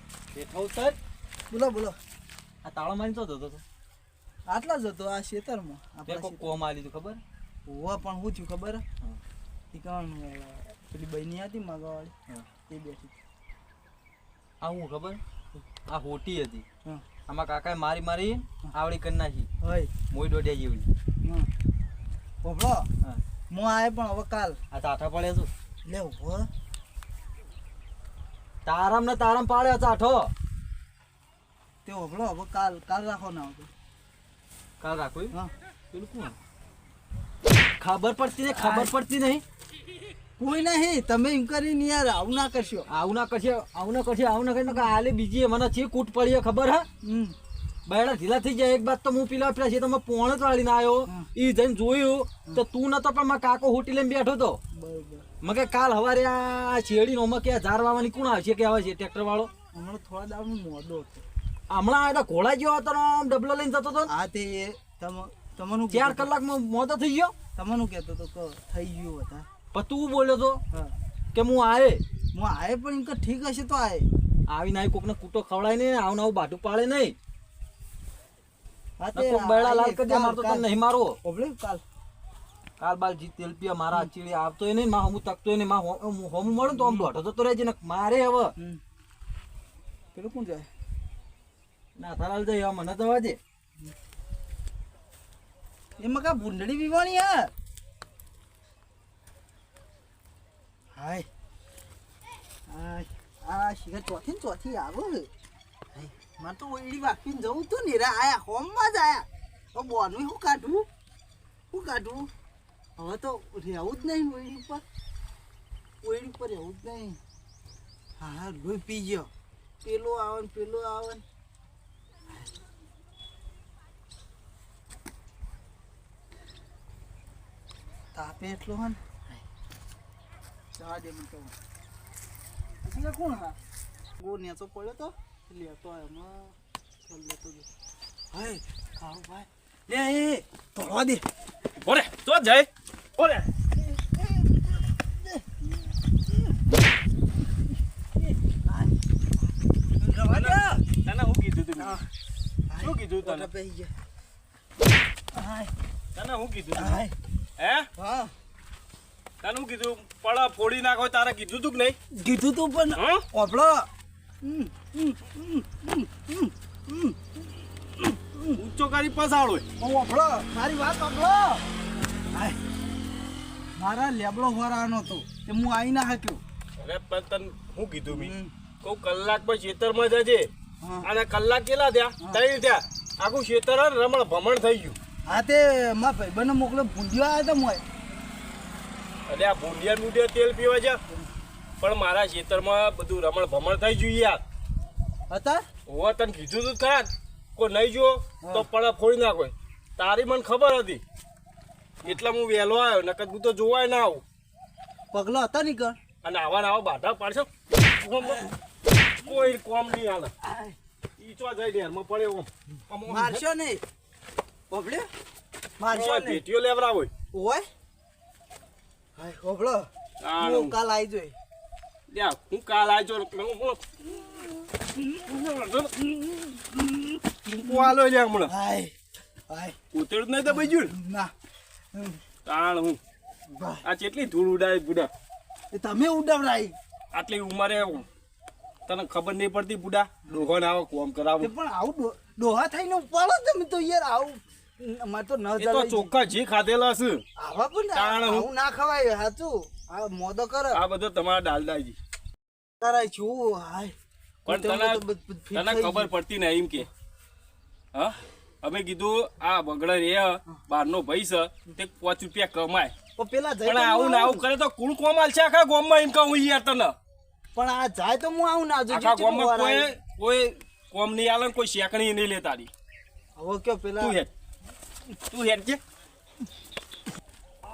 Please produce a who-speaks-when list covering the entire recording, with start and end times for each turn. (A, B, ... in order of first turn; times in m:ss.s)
0:00.4-0:01.0 A
0:01.5-0:02.0 B
0:02.6-0:03.6 A
0:04.5-0:06.5 B
0:06.1-0:07.2 A
0:07.7-0:08.8 B
0:09.7-0:12.1 B
0:12.7-0:13.2 B
0:14.6-0:16.6 A
0:17.3-0:19.5 A
0:19.6-0:19.9 B
0:20.1-0:20.9 A
0:21.2-0:21.5 B
0:22.4-0:22.9 B
0:23.5-0:24.6 B
0:24.7-0:25.5 A
0:25.8-0:26.5 B
0:28.6-0:30.3 A
0:31.8-0:33.7 B
0:34.8-0:35.4 A
0:35.9-0:36.4 A
0:37.8-0:39.4 A
0:38.5-0:38.9 B
0:40.4-0:42.9 B
0:42.9-0:46.9 A
0:47.0-0:47.4 B
0:47.9-0:54.6 A
0:54.7-0:55.3 B
0:55.4-0:59.5 A
0:59.7-1:01.2 B
1:01.7-1:04.1 A
1:04.1-1:06.3 B
1:05.9-1:07.3 A
1:07.6-1:09.5 B
1:09.7-1:10.6 A
1:11.3-1:12.0 A
1:12.3-1:14.1 B
1:14.5-1:17.2 A
1:19.0-1:20.7 B
1:19.2-1:21.2 A
1:21.2-1:21.8 B
1:22.8-1:28.5 A
1:26.6-1:27.1 B
1:30.2-1:30.7 B
1:32.0-1:33.4 A
1:36.0-1:37.5 B
1:41.0-1:41.3 B
1:42.7-1:45.3 B
1:46.0-1:50.9 B
1:51.7-1:52.3 B
1:53.0-1:54.8 B
1:56.0-1:57.2 B
1:58.2-1:59.3 B
1:59.8-2:01.2 B
2:08.2-2:09.4 B
2:10.8-2:11.5 B
2:12.8-2:13.6 B
2:14.2-2:16.6 B
2:17.1-2:17.7 B
2:18.3-2:21.2 B
2:21.8-2:23.5 C
2:23.8-2:25.7 B
2:28.7-2:29.0 B
2:30.0-2:30.8 B
2:30.2-2:32.0 C
2:32.7-2:33.9 B
2:32.8-2:33.5 C
2:35.3-2:35.7 B
2:36.2-2:37.0 C
2:36.8-2:37.1 B
2:37.6-2:37.9 C
2:38.0-2:38.3 B
2:39.4-2:42.0 C
2:42.1-2:43.9 B
2:43.0-2:43.2 C
2:44.4-2:47.3 B
2:48.0-2:48.6 B
2:48.6-2:49.6 C
2:49.8-2:51.6 B
2:52.3-2:52.6 B
2:53.8-2:56.4 B
2:56.8-3:00.5 C
2:58.1-2:58.5 B
3:00.8-3:01.1 B
3:01.0-3:05.0 C
3:05.2-3:07.8 B
3:09.3-3:11.0 C
3:11.8-3:14.4 C
3:15.3-3:15.7 B
3:15.9-3:21.0 C
3:22.0-3:24.2 C
3:25.1-3:26.0 B
3:26.2-3:28.5 C
3:29.2-3:30.3 C
3:30.4-3:30.8 B
3:31.2-3:33.4 C
3:33.1-3:33.8 B
3:34.7-3:35.1 B
3:35.8-3:36.4 B
3:35.9-3:37.1 C
3:37.3-3:37.7 B
3:39.2-3:41.4 B
3:40.2-3:40.8 C
3:42.1-3:43.8 C
3:45.2-3:45.9 C
3:46.7-3:47.0 B
3:47.4-3:48.5 C
3:48.5-3:48.9 B
3:49.5-3:49.8 B
3:49.9-3:50.9 C
3:50.5-3:51.3 B
3:51.9-3:52.2 B
3:52.5-3:53.0 C
3:53.5-3:53.9 B
3:53.8-3:55.1 C
3:55.7-3:56.8 B
3:57.1-3:58.1 C
3:58.9-4:01.5 C
4:01.4-4:06.1 B
4:05.6-4:07.2 C
4:07.4-4:10.8 B
4:08.0-4:08.5 C
4:10.7-4:12.0 C
4:12.8-4:14.0 B
4:14.5-4:15.0 C
4:14.5-4:16.1 B
4:15.5-4:16.9 C
4:17.9-4:22.9 C
4:23.2-4:24.4 B
4:23.6-4:27.0 C
4:27.6-4:29.9 B
4:28.9-4:32.7 C
4:33.4-4:34.2 B
4:34.0-4:34.3 C
4:35.3-4:35.8 C